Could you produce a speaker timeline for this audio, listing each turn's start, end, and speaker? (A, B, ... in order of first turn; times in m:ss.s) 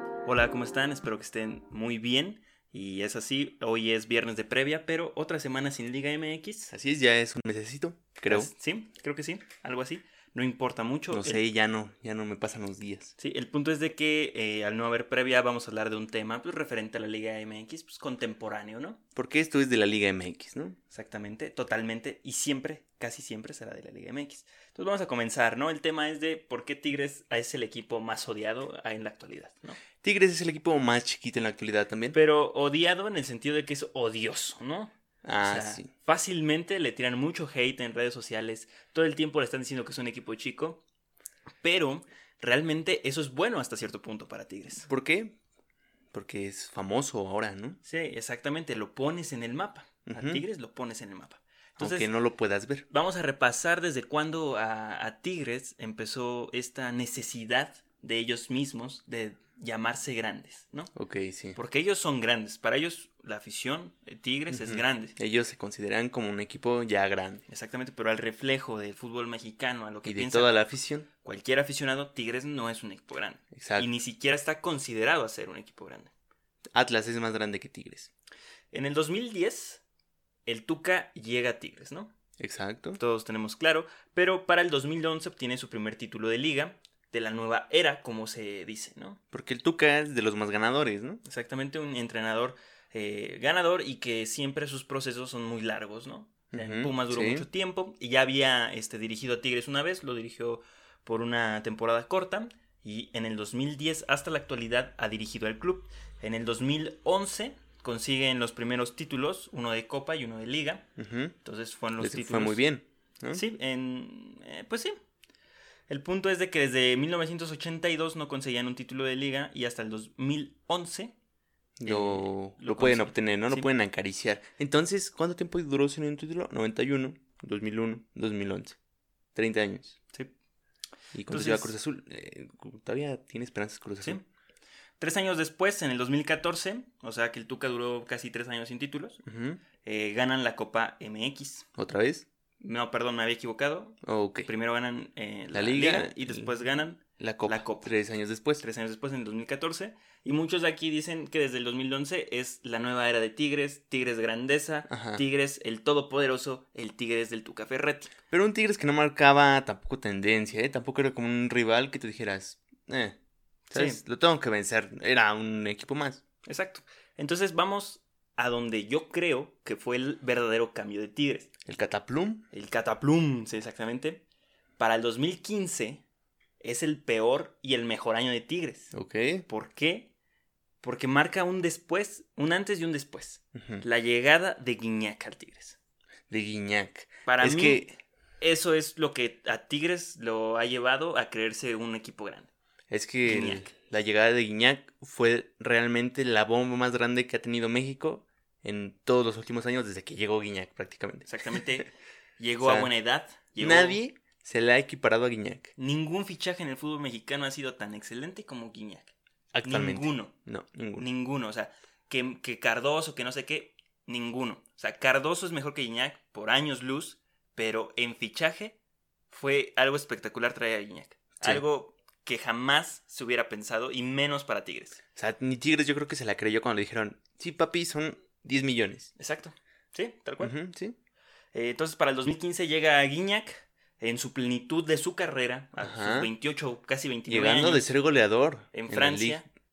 0:00.2-0:06.7 A
0:06.7-0:08.5 B
0:08.3-0:11.4 A
0:11.1-0:13.1 B
0:13.2-0:19.0 A
0:19.2-0:20.8 B
0:20.9-0:29.8 A
0:30.0-0:32.2 B
0:32.1-0:40.8 A
0:35.2-0:35.9 B
0:41.6-0:44.9 A
0:44.9-0:45.4 B
0:46.1-0:47.8 B
0:47.8-0:52.1 A
0:50.1-0:50.4 B
0:51.8-0:52.9 B
0:52.9-1:00.9 A
1:01.0-1:01.6 B
1:01.6-1:05.2 A
1:04.5-1:07.4 B
1:07.5-1:10.6 A
1:10.0-1:11.1 B
1:11.2-1:16.1 A
1:13.5-1:13.9 B
1:16.7-1:18.1 B
1:18.7-1:19.8 A
1:20.5-1:22.1 A
1:22.4-1:23.0 B
1:23.0-1:29.2 A
1:29.3-1:31.2 B
1:31.2-1:50.9 A
1:36.5-1:37.5 B
1:51.0-1:51.4 B
1:51.4-1:52.6 A
1:52.0-1:53.4 B
1:53.3-1:55.0 A
1:55.9-2:01.1 A
2:01.8-2:08.8 B
2:01.8-2:03.7 A
2:09.4-2:10.0 B
2:11.1-2:14.2 B
2:11.3-2:11.7 A
2:15.0-2:19.2 A
2:19.3-2:19.6 B
2:19.8-2:21.7 A
2:21.8-2:22.2 B
2:22.6-2:27.9 A
2:24.0-2:24.5 B
2:25.5-2:26.5 B
2:27.2-2:28.6 B
2:28.6-2:38.1 A
2:34.9-2:35.2 B
2:38.3-2:43.2 B
2:43.7-2:44.0 A
2:43.7-2:46.2 B
2:46.4-2:51.5 A
2:51.7-2:52.4 B
2:52.5-2:54.2 A
2:54.8-2:56.0 A
2:56.6-2:58.9 A
2:58.9-2:59.4 B
2:59.5-3:00.1 A
3:00.8-3:05.8 A
3:03.6-3:03.8 B
3:06.3-3:07.9 B
3:07.3-3:07.9 A
3:08.4-3:12.5 A
3:12.9-3:21.6 B
3:13.2-3:13.7 A
3:21.3-3:24.0 A
3:22.6-3:22.9 B
3:23.6-3:25.7 B
3:25.8-3:29.1 A
3:29.5-3:31.1 B
3:29.6-3:30.3 A
3:31.0-3:38.8 A
3:39.3-3:45.0 A
3:45.2-3:49.1 B
3:49.2-3:50.5 A
3:50.4-3:51.0 B
3:51.5-3:57.9 A
3:55.8-3:56.3 B
3:57.3-3:59.4 B
3:58.7-3:59.4 A